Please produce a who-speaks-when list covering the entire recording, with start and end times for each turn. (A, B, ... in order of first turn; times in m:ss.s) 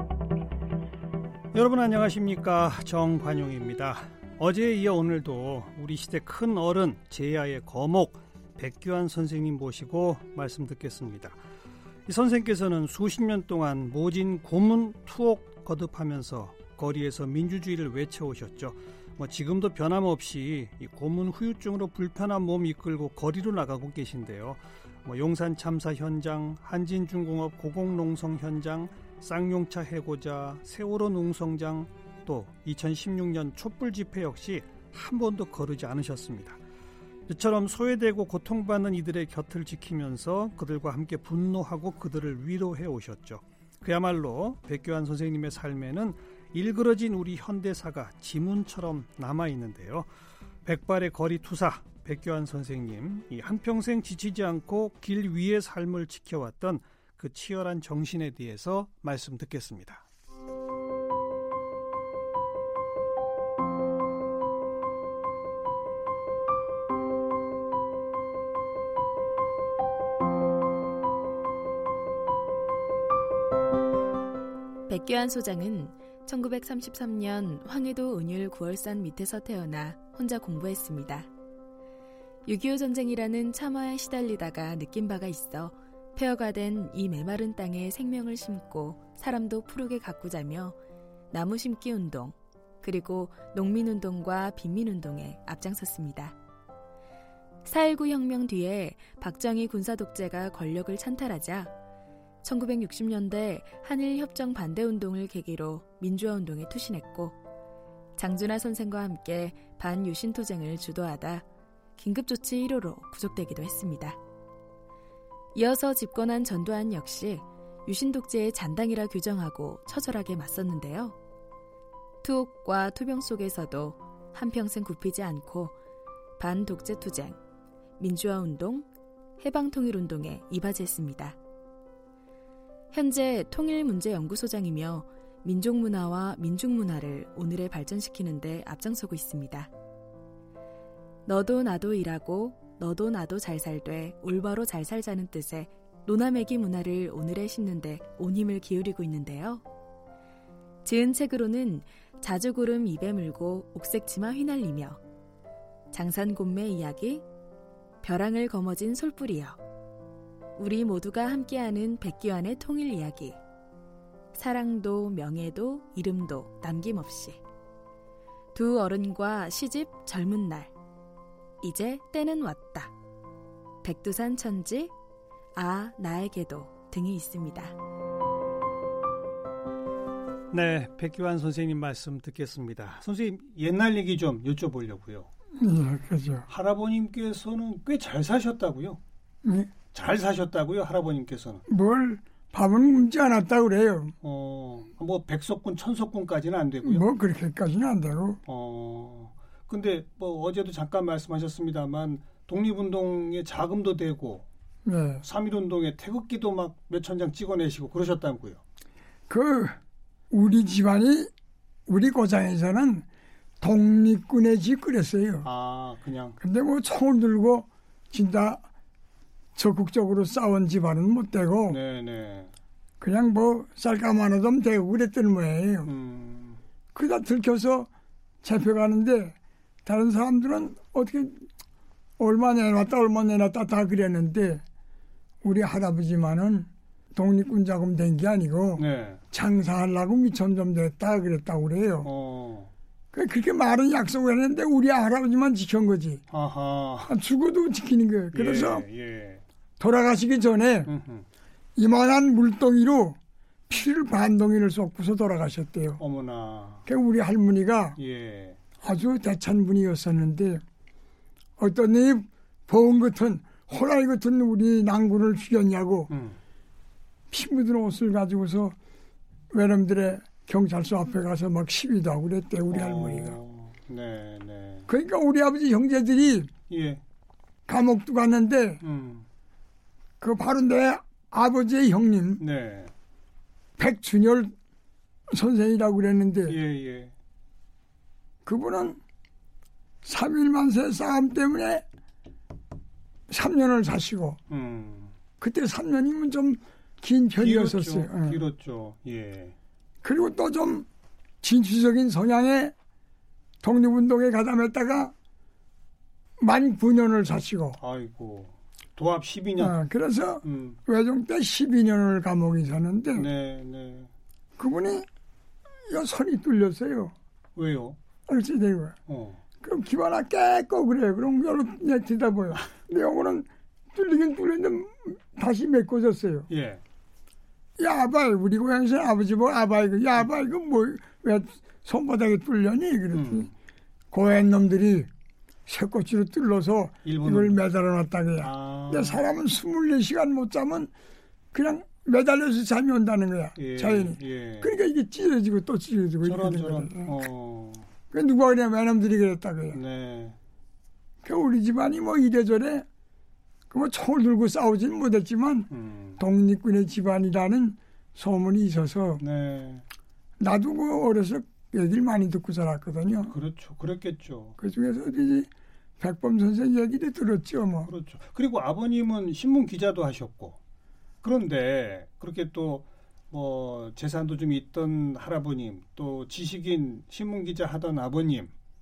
0:01.5-0:11.4 A
0:12.1-0:36.6 A
0:37.3-0:50.1 A
0:50.6-1:00.0 A
1:14.9-1:21.3 B
1:22.4-1:30.8 B
1:31.3-1:36.4 B
1:37.6-1:41.7 B
1:42.4-1:47.4 B
1:48.2-1:51.4 B
1:52.0-1:54.2 B
1:55.6-2:01.2 B
2:02.2-2:05.8 B
2:06.4-2:07.4 B
2:08.0-2:08.9 B
2:09.4-2:11.4 B
2:12.9-2:19.7 B
2:21.2-2:29.6 B
2:30.8-2:35.0 B
2:35.9-2:37.2 B
2:38.0-2:39.6 B
2:40.6-2:43.4 B
2:44.3-2:47.4 B
2:48.5-2:50.7 B
2:51.6-2:52.9 B
2:53.8-2:54.9 B
2:55.5-2:57.7 B
3:00.5-3:05.3 A
3:05.6-3:06.5 C
3:06.5-3:09.0 A
3:09.4-3:09.7 C
3:09.9-3:11.6 A
3:11.7-3:14.1 C
3:14.2-3:17.0 A
3:16.8-3:18.4 C
3:18.5-3:24.4 A
3:24.8-3:25.2 C
3:25.2-3:28.6 A
3:29.3-3:29.8 C
3:30.3-3:31.3 C
3:31.9-3:33.0 C
3:33.6-3:35.5 C
3:35.4-3:36.4 A
3:36.4-3:38.6 C
3:39.5-3:41.8 C
3:41.7-3:42.5 A
3:43.0-3:45.9 C
3:45.8-3:46.6 A
3:46.9-3:47.9 C
3:48.4-3:51.5 C
3:52.2-3:54.6 C
3:55.4-4:02.1 C
3:58.8-3:59.2 A
4:02.0-4:02.7 A
4:03.1-4:06.2 C
4:06.3-4:07.1 A
4:07.1-4:08.8 C
4:08.3-4:09.4 A
4:09.8-4:10.9 C
4:10.9-4:11.2 A
4:11.8-4:13.2 C
4:13.7-4:16.0 C
4:16.0-4:16.8 A
4:16.9-4:18.0 C
4:18.0-4:18.6 A
4:18.8-4:20.6 C
4:21.6-4:26.1 C
4:26.1-4:26.4 A
4:27.3-4:28.7 C
4:29.5-4:33.4 C
4:32.7-4:34.9 A
4:34.9-4:36.5 C
4:36.7-4:37.0 A
4:37.7-4:38.8 C
4:38.8-4:39.2 A
4:40.2-4:42.4 C
4:42.4-4:42.9 A
4:43.8-4:44.5 C
4:45.3-4:46.6 C
4:46.5-4:47.1 A
4:48.4-4:49.0 C
4:50.0-4:51.8 C
4:53.3-4:54.4 C
4:54.5-4:55.1 A
4:55.4-4:58.4 C
4:57.4-4:59.5 A
5:00.0-5:00.9 C
5:01.4-5:02.7 C
5:03.6-5:05.1 C
5:06.4-5:07.8 C
5:07.8-5:09.8 A
5:09.6-5:13.3 C
5:10.4-5:10.8 A
5:13.1-5:14.1 A
5:14.6-5:15.1 C
5:15.8-5:17.1 C
5:17.6-5:18.0 A
5:18.3-5:19.0 C
5:19.1-5:19.4 A
5:19.6-5:26.5 C
5:26.5-5:26.8 A
5:27.8-5:33.5 C
5:33.1-5:33.5 A
5:34.1-5:35.1 C
5:35.6-5:40.9 C
5:37.0-5:37.6 A
5:38.4-5:39.2 A
5:41.5-5:47.2 C
5:43.6-5:44.7 A
5:46.2-5:47.9 A
5:48.1-5:49.8 C
5:49.7-5:50.4 A
5:51.2-5:52.8 C
5:53.7-5:59.2 C
5:55.7-5:56.2 A
5:59.2-5:59.8 A
6:00.4-6:03.3 C
6:03.3-6:04.6 A
6:04.6-6:05.5 C
6:06.0-6:07.9 C
6:07.8-6:10.6 A
6:11.2-6:18.5 A